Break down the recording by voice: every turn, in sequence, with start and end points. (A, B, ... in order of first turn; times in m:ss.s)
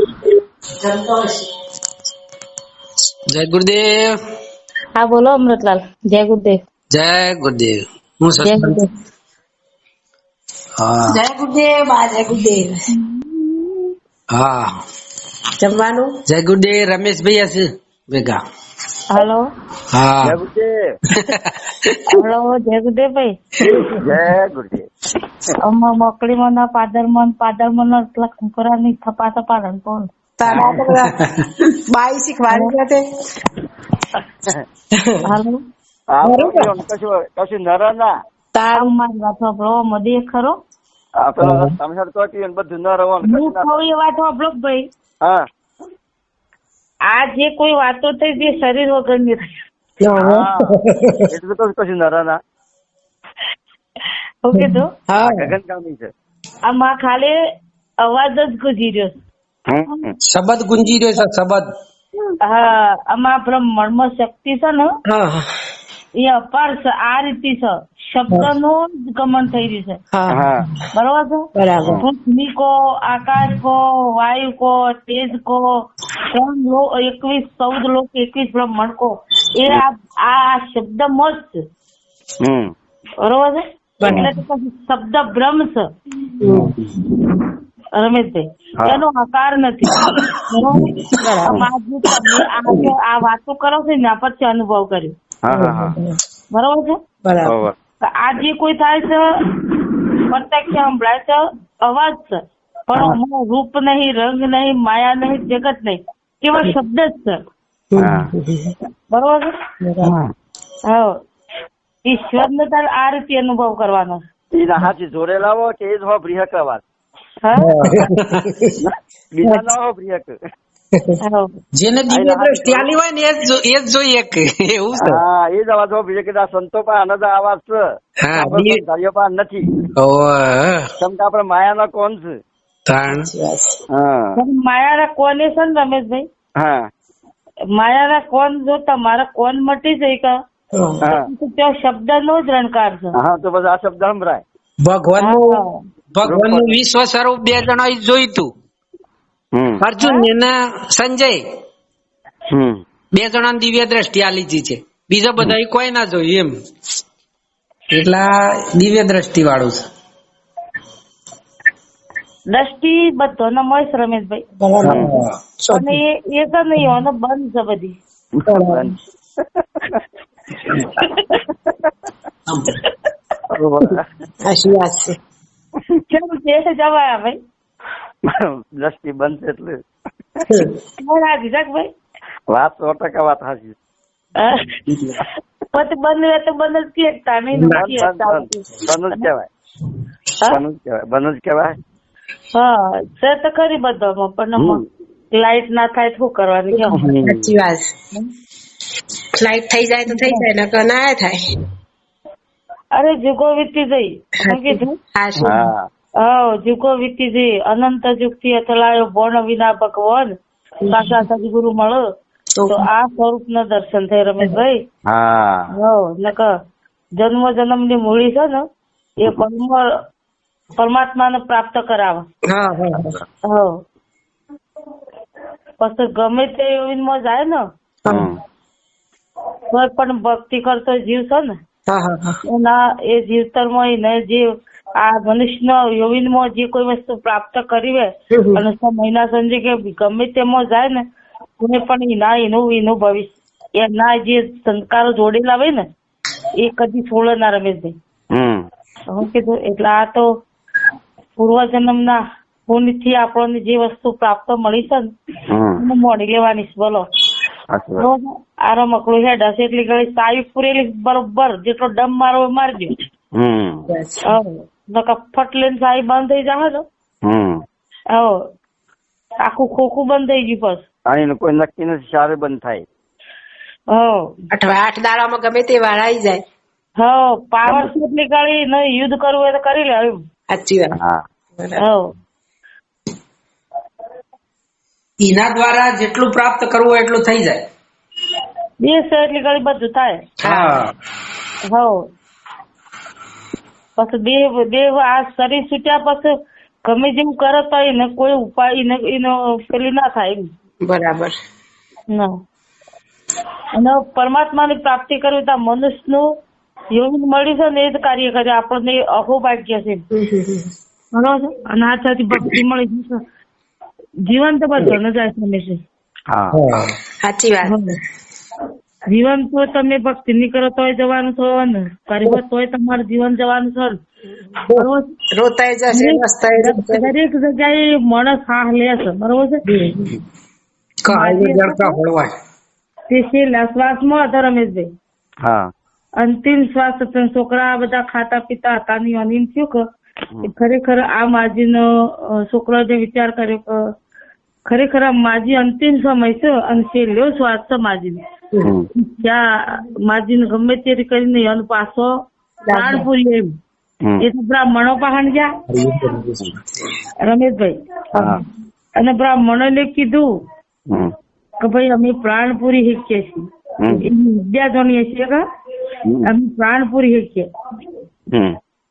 0:00.8-0:01.3 A
0:03.3-0:04.1 B
0:05.1-0:06.4 C
0:06.9-0:08.8 B
0:08.4-0:08.9 C
0:10.8-0:11.2 B
0:11.1-0:12.8 A
0:13.0-0:13.8 C
0:14.3-0:14.7 B
0:15.6-0:16.1 A
0:16.3-0:18.4 B
0:19.1-0:19.5 C
0:19.9-0:20.4 B
0:20.2-0:20.7 D
0:21.1-0:21.4 B
0:22.1-0:23.3 C
0:24.0-0:24.9 D
0:25.6-0:30.1 C
0:30.4-0:31.1 A
0:30.6-0:31.1 B
0:31.8-0:33.0 A
0:32.5-0:32.7 C
0:35.2-0:35.6 C
0:36.1-0:38.2 D
0:36.2-0:36.7 A
0:38.5-0:38.9 A
0:38.7-0:40.6 C
0:41.2-0:43.6 D
0:41.4-0:41.7 A
0:43.2-0:44.9 C
0:47.1-0:49.4 C
0:50.0-0:51.2 A
0:50.2-0:50.7 D
0:51.3-0:52.4 D
0:54.4-0:54.9 C
0:54.6-0:55.5 A
0:55.2-0:56.1 D
0:56.6-0:57.4 C
0:58.0-0:59.1 C
0:59.7-1:00.1 D
0:59.9-1:00.1 C
1:00.2-1:01.6 B
1:02.4-1:04.9 C
1:05.1-1:05.5 A
1:06.2-1:10.0 C
1:10.1-1:10.6 A
1:10.3-1:10.6 D
1:10.9-1:11.5 C
1:11.6-1:12.0 A
1:12.0-1:15.7 C
1:16.3-1:21.6 C
1:22.4-1:22.7 D
1:23.2-1:25.9 C
1:24.0-1:24.3 A
1:26.4-1:26.7 A
1:27.9-1:35.1 C
1:35.4-1:35.9 D
1:35.5-1:36.1 A
1:36.5-1:37.0 C
1:37.2-1:37.6 A
1:37.4-1:37.7 D
1:38.0-1:39.3 C
1:40.3-1:47.4 C
1:47.9-1:48.7 A
1:48.0-1:48.3 D
1:49.1-1:49.5 C
1:49.8-1:50.1 A
1:50.9-1:51.2 C
1:52.0-1:54.2 C
1:54.5-1:56.8 D
1:57.4-1:57.7 C
1:57.6-1:58.4 B
1:58.9-2:00.3 D
2:01.2-2:01.5 C
2:01.7-2:05.2 B
2:02.1-2:02.9 D
2:05.0-2:07.8 D
2:08.2-2:08.8 B
2:08.3-2:09.6 D
2:10.0-2:10.9 B
2:11.0-2:12.3 D
2:12.8-2:13.3 B
2:13.3-2:13.8 A
2:13.9-2:14.4 D
2:14.4-2:16.2 C
2:16.6-2:16.9 D
2:17.7-2:20.4 C
2:20.7-2:21.0 A
2:21.1-2:23.1 C
2:23.1-2:24.4 D
2:24.8-2:25.6 B
2:25.2-2:25.8 C
2:26.1-2:28.5 B
2:26.2-2:26.7 D
2:29.5-2:29.8 D
2:29.8-2:31.4 B
2:30.0-2:30.3 C
2:32.5-2:32.8 D
2:33.1-2:36.5 B
2:37.9-2:39.8 B
2:42.5-2:44.4 C
2:44.6-2:46.0 A
2:44.8-2:45.3 B
2:45.7-2:48.0 C
2:48.4-2:48.9 A
2:48.5-2:48.9 D
2:53.5-2:54.0 D
2:54.4-2:55.2 A
2:56.1-2:57.4 C
2:58.3-2:59.8 D
3:01.0-3:01.9 C
3:02.5-3:03.7 D
3:05.7-3:09.3 C
3:07.5-3:08.0 A
3:07.8-3:09.5 D
3:10.5-3:11.7 D
3:12.5-3:17.1 C
3:14.6-3:14.8 D
3:16.7-3:17.9 A
3:16.9-3:17.4 D
3:19.3-3:21.4 A
3:20.1-3:20.4 C
3:22.9-3:25.0 C
3:24.4-3:25.5 A
3:25.4-3:25.9 D
3:26.2-3:30.3 C
3:30.8-3:31.2 A
3:30.9-3:32.0 C
3:32.6-3:32.8 A
3:32.7-3:34.8 C
3:35.1-3:35.7 D
3:35.7-3:36.5 C
3:37.2-3:38.6 C
3:39.2-3:39.9 C
3:40.8-3:42.2 C
3:42.5-3:43.2 A
3:43.4-3:43.8 C
3:45.8-3:47.6 C
3:48.0-3:48.3 A
3:48.1-3:48.3 D
3:49.7-3:51.5 C
3:51.9-3:52.4 A
3:52.4-4:01.0 C
3:58.3-3:58.6 A
4:01.6-4:05.8 C
4:06.6-4:08.0 C
4:08.3-4:08.6 D
4:09.1-4:10.3 C
4:11.4-4:15.1 C
4:15.5-4:15.8 D
4:15.8-4:17.0 C
4:17.7-4:18.1 D
4:18.0-4:22.9 C
4:23.4-4:23.8 D
4:23.9-4:24.3 A
4:24.3-4:26.8 C
4:27.2-4:27.6 D
4:28.1-4:28.4 C
4:29.4-4:30.8 C
4:31.1-4:32.8 D
4:33.9-4:34.3 C
4:34.5-4:36.4 A
4:37.0-4:40.2 C
4:40.5-4:41.0 A
4:41.6-4:41.8 A
4:41.8-4:42.1 C
4:45.2-4:47.6 B
4:48.8-4:50.2 C
4:50.4-4:50.9 B
4:50.4-4:50.8 A
4:51.7-4:52.0 C
4:54.0-4:56.3 C
4:56.9-5:00.5 C
5:00.8-5:01.3 A
5:03.8-5:06.3 C
5:06.9-5:10.0 C
5:10.1-5:10.7 A
5:11.1-5:13.2 C
5:14.3-5:15.8 C
5:16.3-5:16.6 D
5:16.5-5:16.9 B
5:17.2-5:17.8 A
5:17.6-5:18.0 C
5:19.1-5:24.0 C
5:24.5-5:27.1 A
5:24.7-5:25.0 C
5:25.9-5:29.6 C
5:29.7-5:30.1 A
5:31.0-5:32.3 B
5:31.1-5:32.0 C
5:33.1-5:34.9 C
5:35.4-5:35.7 D
5:36.2-5:39.8 C
5:40.4-5:43.8 C
5:44.6-5:48.2 C
5:48.9-5:52.1 C
5:52.7-5:53.0 A
5:52.7-5:53.5 C
5:54.2-5:55.5 C
5:55.7-5:56.5 B
5:57.2-5:57.8 C
5:59.0-6:00.3 C
6:01.6-6:03.4 C
6:04.0-6:05.4 C
6:06.2-6:07.5 C